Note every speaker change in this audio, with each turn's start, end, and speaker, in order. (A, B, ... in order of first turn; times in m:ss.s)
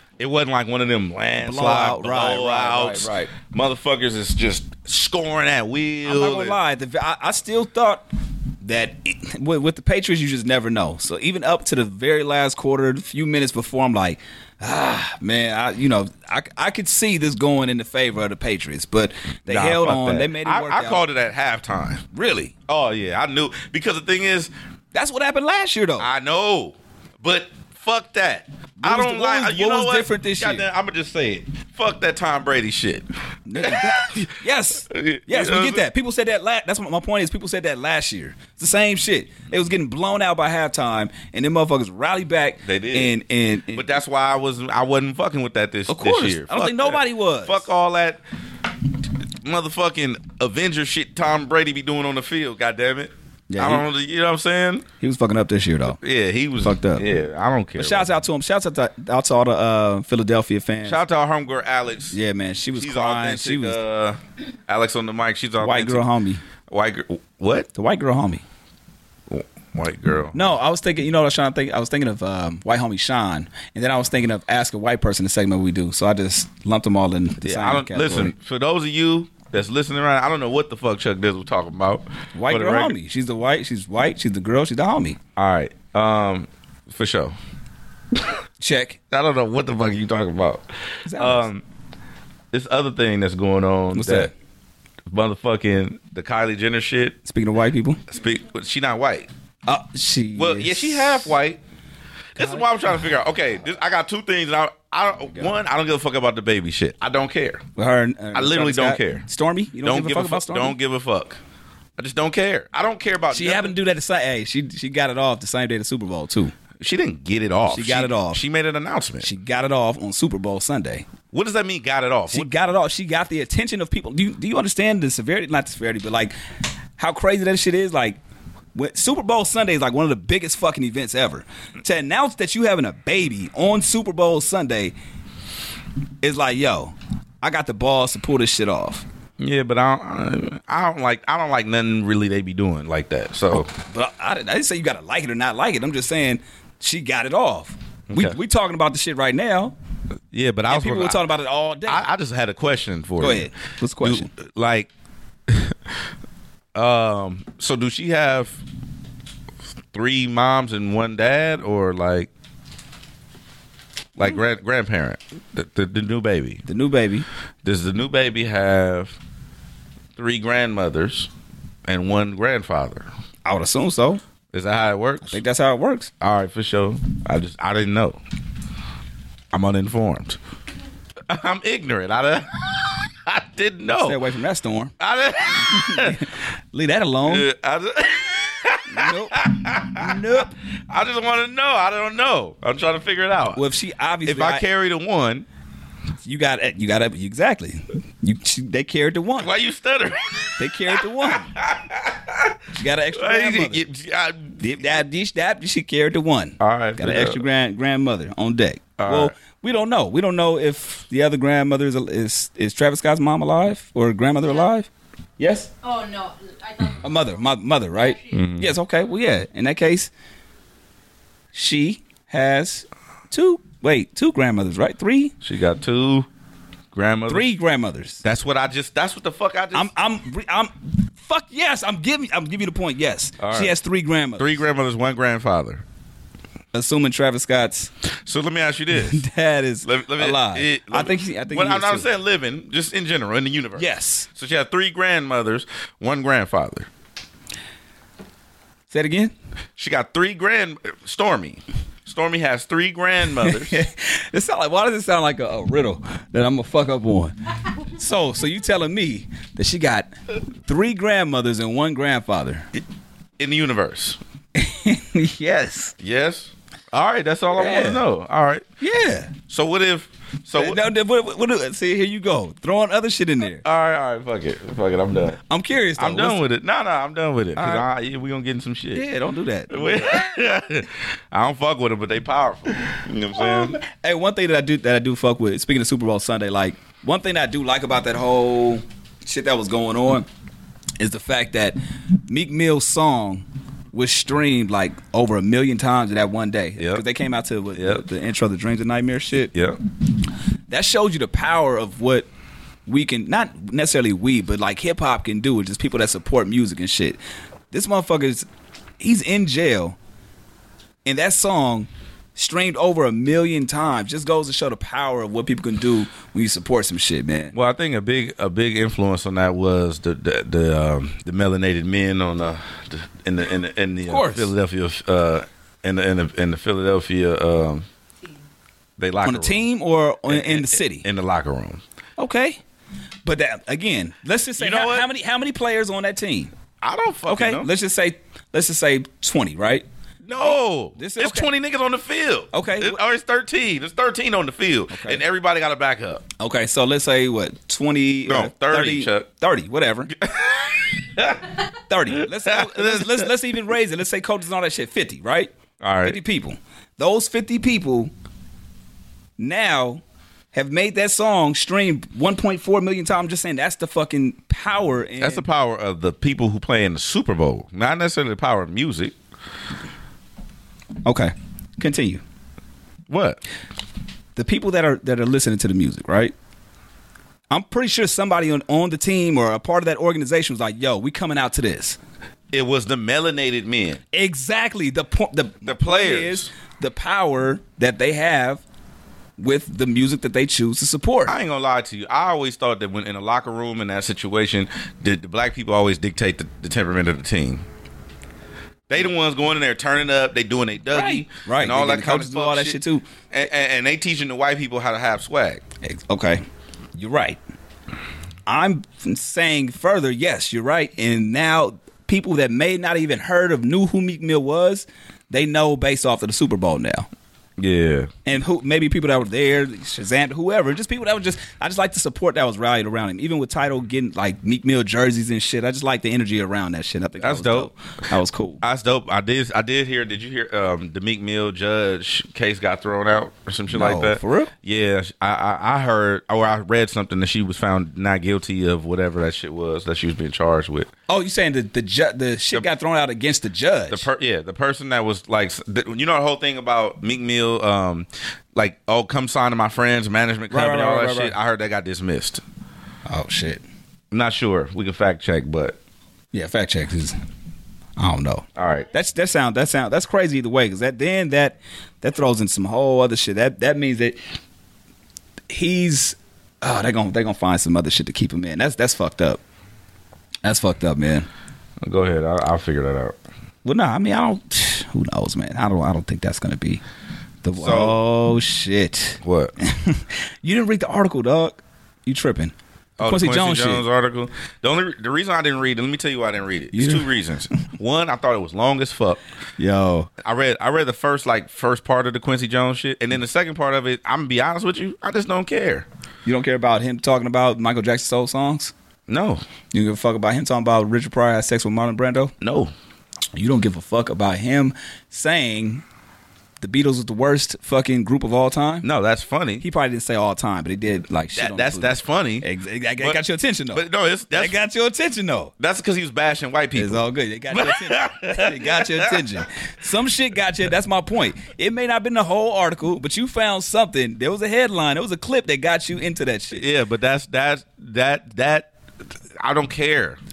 0:00.2-0:06.6 A
0:01.4-0:03.3 B
0:06.0-0:08.0 B
0:08.6-0:21.0 B
0:19.5-0:22.0 A
0:22.1-0:22.5 B
0:22.7-0:24.5 A
0:24.9-0:26.1 B
0:26.0-0:33.1 A
0:28.8-0:30.7 B
0:33.5-0:43.9 B
0:33.6-0:34.3 A
0:34.9-0:35.8 A
0:42.6-0:43.1 A
0:43.7-0:48.2 A
0:45.9-0:47.7 B
0:49.4-0:54.9 A
0:53.5-0:53.8 B
0:55.0-0:56.0 B
0:56.0-0:58.1 A
0:56.6-0:57.1 B
0:57.8-1:01.0 B
1:00.8-1:02.2 A
1:02.1-1:03.8 B
1:02.7-1:06.0 A
1:05.6-1:06.4 B
1:06.7-1:07.7 A
1:07.7-1:08.4 B
1:09.3-1:10.6 A
1:10.3-1:18.3 B
1:17.4-1:23.0 A
1:22.4-1:25.2 B
1:25.4-1:27.3 A
1:28.6-1:29.0 B
1:29.1-1:30.6 A
1:31.0-1:31.5 B
1:31.2-1:31.6 A
1:32.5-1:34.3 A
1:33.9-1:34.3 B
1:35.1-1:37.2 A
1:37.2-1:38.0 B
1:38.1-1:39.3 A
1:39.7-1:41.4 B
1:40.4-1:41.6 A
1:42.4-1:47.6 A
1:42.4-1:42.8 B
1:47.8-1:50.8 B
1:48.3-1:49.3 A
1:49.8-1:51.4 A
1:52.0-1:53.8 A
1:53.3-1:56.5 B
1:56.8-1:59.3 A
1:57.7-1:58.4 B
1:59.2-2:01.1 B
2:01.3-2:02.5 A
2:02.3-2:06.3 B
2:07.0-2:08.2 B
2:08.8-2:14.9 B
2:16.2-2:19.0 B
2:19.4-2:23.7 A
2:23.5-2:29.7 B
2:28.1-2:28.4 A
2:30.3-2:31.3 A
2:30.7-2:32.0 B
2:31.8-2:33.5 A
2:33.2-2:34.3 B
2:34.0-2:34.9 A
2:35.5-2:35.8 A
2:36.7-2:38.6 A
2:39.9-2:42.3 A
2:44.2-2:46.6 A
2:46.7-2:47.3 B
2:47.6-2:49.2 A
2:50.2-2:51.3 A
2:51.9-2:53.1 A
2:53.4-2:54.2 B
2:54.5-2:55.4 A
2:55.3-2:56.1 B
2:56.2-2:58.2 A
2:59.5-3:00.4 A
3:01.3-3:04.2 A
3:03.9-3:04.9 B
3:05.0-3:06.3 A
3:05.6-3:07.5 B
3:07.3-3:13.6 A
3:08.9-3:10.5 B
3:13.6-3:14.6 B
3:14.2-3:15.5 A
3:16.2-3:19.5 B
3:19.4-3:22.6 A
3:20.6-3:21.5 B
3:22.7-3:23.8 B
3:23.1-3:25.0 A
3:24.6-3:34.9 B
3:26.6-3:27.4 A
3:29.0-3:29.3 A
3:35.4-3:35.7 B
3:35.8-3:37.4 C
3:37.0-3:40.1 B
3:37.9-3:38.4 C
3:38.3-3:38.7 A
3:41.5-3:45.3 B
3:45.4-3:46.3 A
3:46.9-3:47.5 A
3:47.3-3:48.2 B
3:48.2-3:49.9 A
3:49.7-3:54.6 B
3:53.4-3:53.7 A
3:54.4-3:55.8 A
3:56.7-3:57.9 B
3:58.3-3:59.2 A
3:59.0-4:02.1 B
3:59.8-4:06.9 A
4:03.8-4:04.3 B
4:08.9-4:09.3 B
4:09.8-4:13.8 A
4:13.4-4:20.1 B
4:20.6-4:22.7 B
4:23.4-4:24.2 A
4:24.6-4:26.0 B
4:26.0-4:28.6 A
4:27.5-4:28.0 B
4:28.8-4:29.3 B
4:29.5-4:30.8 A
4:30.6-4:33.6 B
4:33.6-4:35.4 A
4:35.5-4:36.4 B
4:36.0-4:39.0 A
4:37.6-4:37.9 B
4:38.9-4:40.3 B
4:39.7-4:43.8 A
4:43.4-4:50.3 B
4:51.0-4:59.5 B
4:56.8-4:57.0 A
4:57.8-4:58.0 A
5:00.7-5:02.3 B
5:02.9-5:07.2 B
5:07.7-5:08.5 B
5:09.0-5:10.0 B
5:11.0-5:17.6 B
5:17.5-5:27.9 A
5:24.1-5:24.5 B
5:29.0-5:29.6 A
5:29.2-5:31.1 B
5:30.3-5:31.8 A
5:32.2-5:32.6 B
5:33.2-5:36.5 B
5:34.6-5:35.1 A
5:36.8-5:37.7 A
5:37.3-5:39.9 B
5:40.2-5:46.2 A
5:40.4-5:41.5 B
5:42.5-5:43.0 B
5:44.9-5:45.2 B
5:46.4-5:50.1 B
5:48.3-5:49.3 A
5:50.1-5:51.6 A
5:51.9-5:55.5 B
5:52.1-5:53.3 A
5:55.8-5:56.2 A
5:56.0-5:58.1 B
5:59.4-6:00.0 B
6:00.5-6:05.4 B
6:05.2-6:09.2 A
6:11.0-6:12.2 B
6:13.1-6:13.4 A
6:14.4-6:16.3 B
6:17.5-6:22.0 B
6:22.5-6:24.0 A
6:24.1-6:28.6 B
6:25.6-6:26.5 A
6:29.4-6:31.4 B
6:31.3-6:37.6 A
6:38.9-6:42.8 A
6:40.9-6:43.1 B
6:43.3-6:45.6 A
6:45.8-6:46.4 B
6:47.0-6:47.4 B
6:48.5-6:57.1 B
6:57.6-6:58.1 A
6:58.3-7:08.6 B
7:07.2-7:07.7 A
7:08.6-7:20.9 A
7:13.7-7:14.5 B
7:21.1-7:24.1 B
7:23.9-7:32.4 A
7:30.5-7:31.4 B
7:33.1-7:33.6 B
7:34.1-7:35.8 A
7:36.3-7:37.2 B
7:38.0-7:44.2 B
7:38.6-7:38.9 A
7:45.5-7:49.4 B
7:50.4-7:51.3 B
7:51.8-7:53.2 A
7:53.6-7:56.8 B
7:57.4-8:03.8 B
7:57.6-7:58.0 A
7:59.2-7:59.5 A
8:03.0-8:09.2 A
8:06.7-8:07.6 B
8:09.6-8:10.1 B
8:10.2-8:15.9 A
8:16.2-8:18.7 B
8:19.1-8:19.4 A
8:19.7-8:22.3 B
8:22.4-8:22.7 A
8:23.4-8:25.8 B
8:26.6-8:28.9 B
8:28.8-8:29.6 A
8:29.6-8:35.5 B
8:31.4-8:32.5 A
8:33.0-8:34.6 A
8:35.6-8:39.2 A
8:36.8-8:46.6 B
8:46.5-8:48.7 A
8:49.4-8:50.2 A